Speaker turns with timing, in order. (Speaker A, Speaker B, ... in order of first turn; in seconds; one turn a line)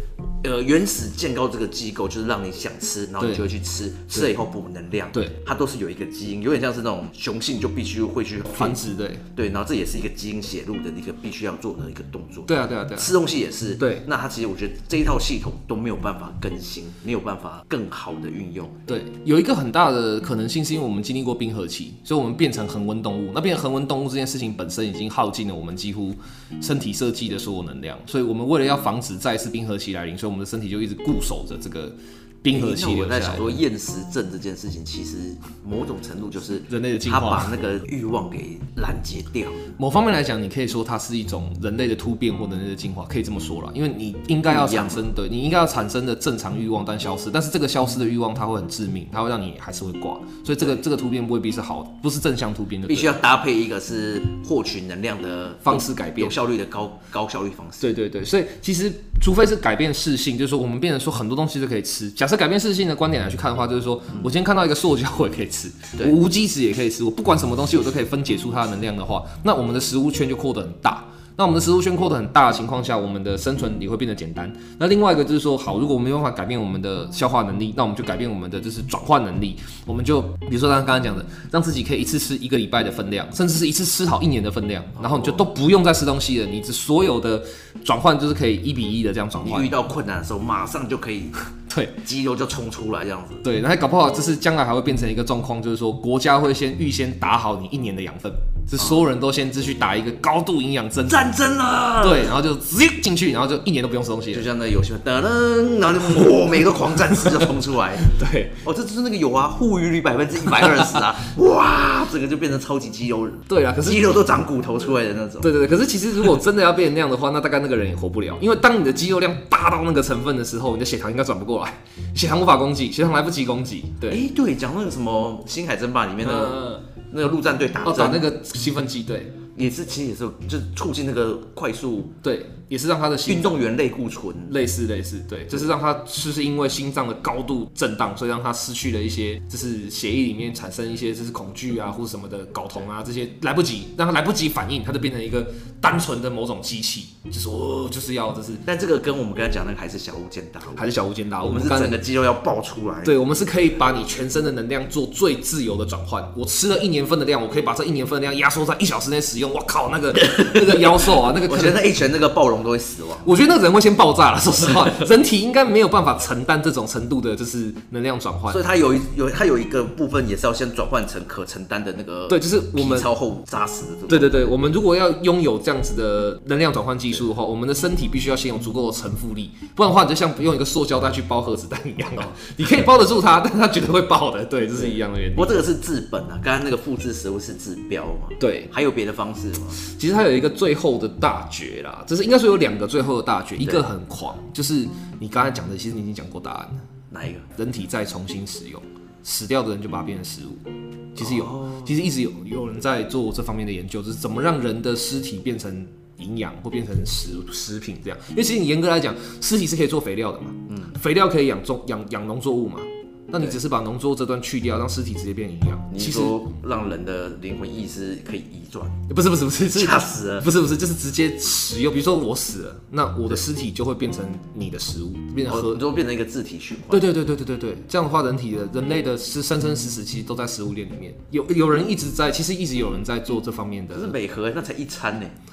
Speaker A: 0.4-8.8
Speaker B: 3.2-3.5
Speaker B: 8.5-9.2
Speaker A: 9.3-18.9
Speaker B: 12.5-13.2
Speaker B: 13.8-14.1
Speaker B: 18.9-33.6
Speaker A: 32.5-39.7
Speaker B: 36.7-37.5
Speaker B: 39.8-53.2
Speaker A: 44.5-45.0
Speaker A: 52.9-57.9
Speaker B: 55.6-56.4
Speaker B: 57.8-89.7
Speaker A: 85.0-85.4
Speaker A: 89.4-91.5
Speaker B: 91.7-92.0
Speaker A: 92.0-93.5
Speaker B: 93.4-101.3
Speaker A: 101.1-102.3
Speaker B: 102.0-104.5
Speaker A: 104.3-115.5
Speaker B: 107.2-108.6
Speaker B: 113.5-114.2
Speaker B: 115.4-124.2
Speaker A: 124.1-128.3
Speaker B: 126.2-126.9
Speaker B: 127.8-129.4
Speaker A: 129.6-132.1
Speaker B: 132.2-133.6
Speaker A: 133.3-134.5
Speaker B: 134.5-148.7
Speaker A: 148.7-150.9
Speaker B: 150.8-152.0
Speaker A: 151.4-153.2
Speaker B: 153.0-161.8
Speaker A: 160.4-163.3
Speaker B: 163.2-168.6
Speaker A: 168.5-174.5
Speaker B: 172.3-173.1
Speaker B: 174.1-185.6
Speaker A: 184.8-189.8
Speaker B: 188.4-188.7
Speaker B: 189.7-196.8
Speaker A: 197.1-197.5
Speaker B: 197.6-216.5
Speaker A: 201.2-201.9
Speaker A: 215.9-219.1
Speaker B: 219.1-225.8
Speaker A: 219.7-220.5
Speaker A: 225.5-227.1
Speaker B: 226.9-234.2
Speaker A: 233.9-235.4